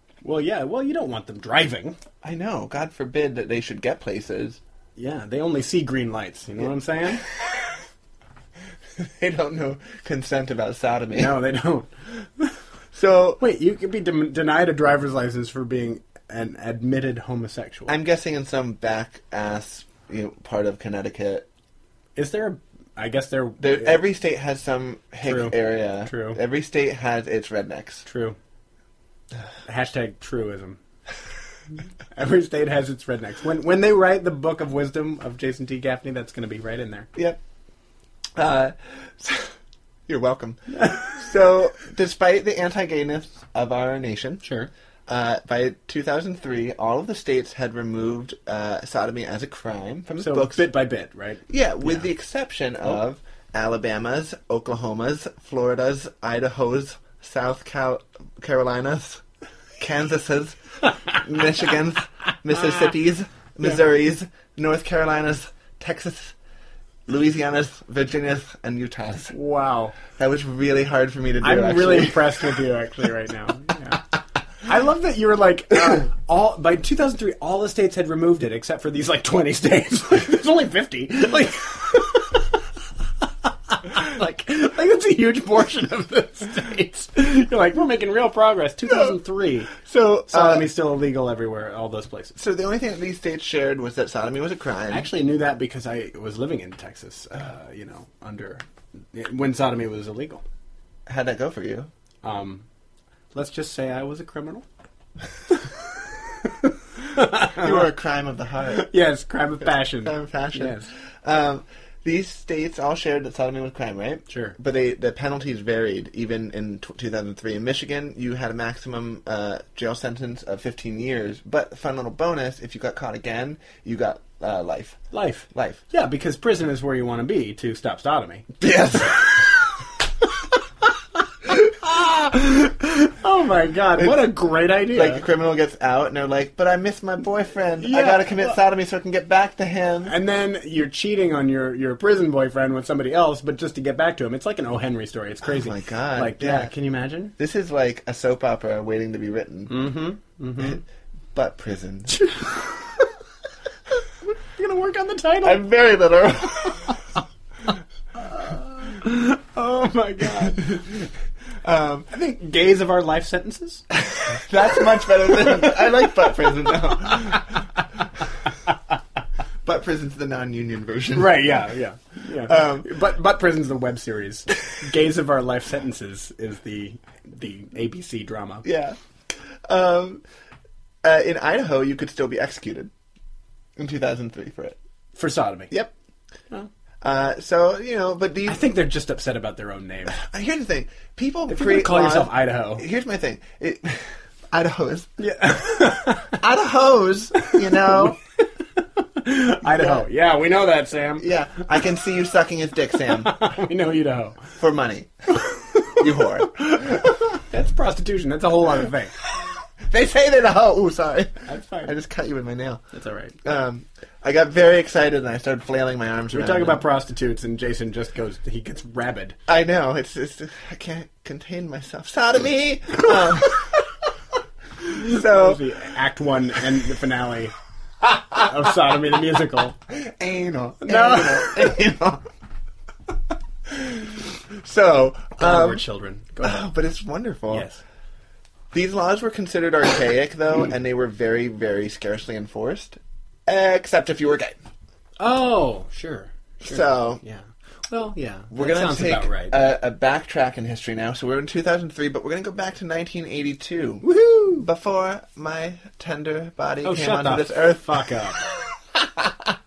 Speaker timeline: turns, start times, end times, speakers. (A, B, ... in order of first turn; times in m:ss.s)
0:00.2-0:02.0 A
0:02.2-0:04.6 B
0:05.0-0:07.2 A
0:09.0-0:11.4 B
0:11.2-0:12.6 A
0:12.9-0:13.4 B
0:13.4-0:17.9 A
0:17.9-0:21.5 B
0:22.2-0:24.0 A
0:23.6-0:28.0 B
0:25.2-0:26.4 A
0:28.1-0:28.4 A
0:29.7-0:30.8 A
0:32.1-0:37.1 A
0:38.4-0:39.6 B
0:40.1-0:44.4 B
0:40.8-0:41.0 A
0:44.4-0:44.7 A
0:45.1-0:50.7 B
0:50.1-0:52.1 A
0:51.5-0:59.2 B
0:59.8-1:00.6 B
1:01.1-1:06.4 B
1:07.1-1:09.3 B
1:09.3-1:10.0 A
1:10.1-1:12.5 B
1:11.4-1:14.0 A
1:14.6-1:22.4 A
1:23.7-1:29.8 A
1:28.9-1:29.2 B
1:29.7-1:30.7 B
1:30.3-1:32.4 A
1:32.4-1:35.1 B
1:34.9-1:40.4 A
1:41.1-1:41.9 B
1:42.2-1:42.6 A
1:43.3-1:44.6 A
1:46.6-1:47.8 A
1:47.4-1:48.9 B
1:48.7-1:50.9 A
1:49.6-2:05.0 B
1:54.3-1:54.6 A
2:05.1-2:08.5 A
2:05.5-2:05.8 B
2:08.6-2:09.6 B
2:11.8-2:15.2 A
2:14.0-2:14.3 B
2:14.9-2:20.1 B
2:17.8-2:18.6 A
2:20.1-2:27.4 A
2:25.5-2:26.7 B
2:27.4-2:29.9 B
2:29.7-2:30.8 A
2:31.3-2:32.3 B
2:32.2-2:32.6 A
2:34.3-2:35.6 A
2:35.4-2:37.0 B
2:38.2-2:40.9 A
2:40.5-2:40.8 B
2:41.6-2:42.1 B
2:42.1-2:43.8 A
2:44.0-2:47.5 B
2:45.4-2:45.9 A
2:49.6-2:51.6 B
2:51.2-2:58.7 A
2:52.4-2:52.9 B
2:58.6-2:59.0 B
2:59.7-3:00.2 B
3:01.0-3:02.9 B
3:03.8-3:04.8 B
3:05.2-3:05.8 A
3:07.0-3:08.6 B
3:08.5-3:10.2 A
3:10.1-3:15.1 B
3:11.5-3:12.9 A
3:15.2-3:16.4 A
3:16.2-3:18.2 B
3:17.8-3:18.2 A
3:19.0-3:21.3 A
3:19.7-3:20.0 B
3:21.2-3:23.4 B
3:23.1-3:24.5 A
3:24.6-3:25.1 B
3:25.9-3:27.2 B
3:27.4-3:29.1 A
3:29.4-3:32.8 B
3:31.5-3:31.9 A
3:32.9-3:33.4 A
3:33.4-3:36.8 B
3:36.3-3:39.4 A
3:39.5-3:43.8 B
3:44.8-3:45.6 B
3:44.9-3:47.5 A
3:48.1-3:49.8 A
3:49.9-3:52.3 B
3:50.8-3:51.8 A
3:53.7-3:55.8 B
3:55.4-3:56.7 A
3:56.4-3:57.7 B
3:57.5-3:57.8 A
3:58.7-4:04.6 B
4:05.2-4:09.6 A
4:06.6-4:07.2 B
4:08.5-4:18.0 B
4:14.0-4:14.7 A
4:16.8-4:18.5 A
4:18.9-4:19.5 B